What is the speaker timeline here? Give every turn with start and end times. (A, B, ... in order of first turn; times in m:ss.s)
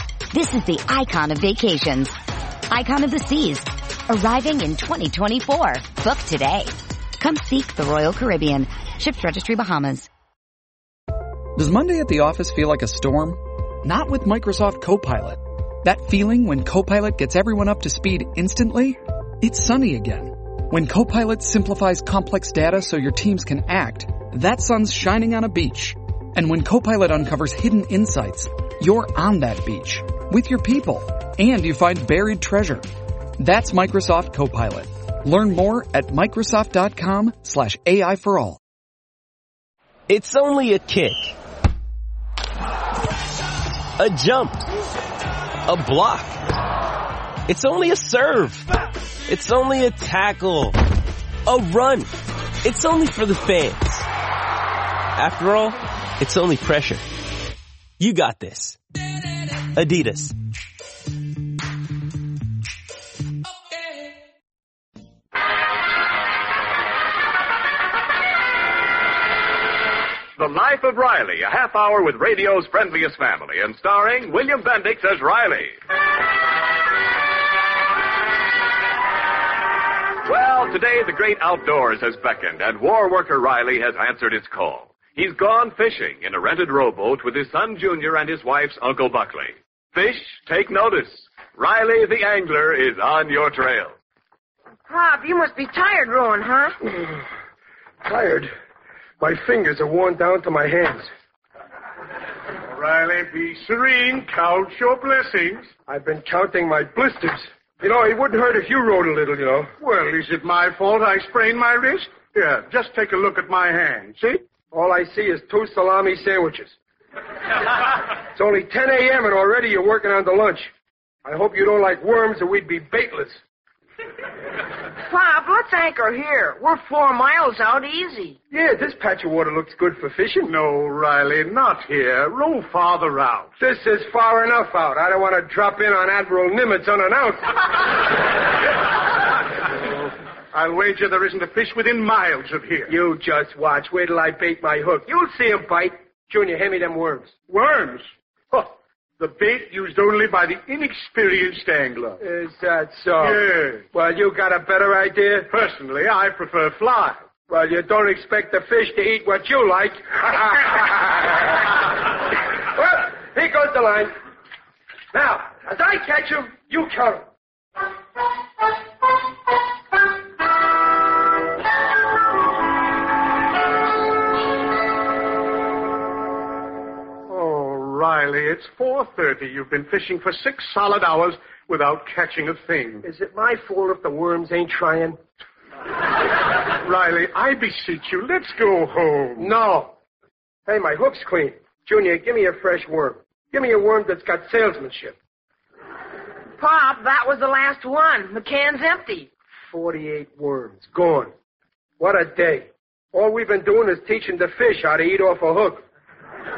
0:00.3-0:02.1 A
0:02.7-0:10.1 A
0:11.6-0:32.8 B
0:33.4-0:38.6 B
0:40.1-0:41.3 C
0:44.0-0:44.6 C
0:45.6-0:46.4 C
0:47.4-0:48.7 C
0:49.3-0:50.8 C
0:51.4-0:52.1 C
0:52.6-0:54.1 C
0:55.2-0:57.0 C
0:58.0-0:58.8 C
0:59.7-1:00.3 C
1:10.4-1:15.8 D
1:20.2-1:33.9 D
1:34.8-1:36.8 E
1:36.9-1:37.2 F
1:38.0-1:38.5 F
1:39.2-1:41.1 F
1:42.7-1:45.7 G
1:45.9-1:49.7 F
1:49.8-1:54.4 G
1:54.7-1:56.7 F
1:58.1-2:00.7 F
2:01.2-2:03.4 F
2:05.0-2:08.4 E
2:08.5-2:10.5 F
2:10.4-2:13.5 G
2:13.6-2:17.6 F
2:20.5-2:23.0 G
2:22.9-2:27.3 F
2:27.5-2:32.2 G
2:32.2-2:35.5 F
2:33.2-2:33.8 G
2:35.5-2:37.2 G
2:37.5-2:41.5 F
2:42.7-2:44.1 F
2:45.1-2:47.2 F
2:57.3-3:03.1 G
3:03.0-3:05.2 F
3:06.8-3:09.5 G
3:09.4-3:09.9 F
3:10.7-3:15.2 F
3:16.6-3:19.3 E
3:19.7-3:21.3 F
3:22.0-3:25.8 F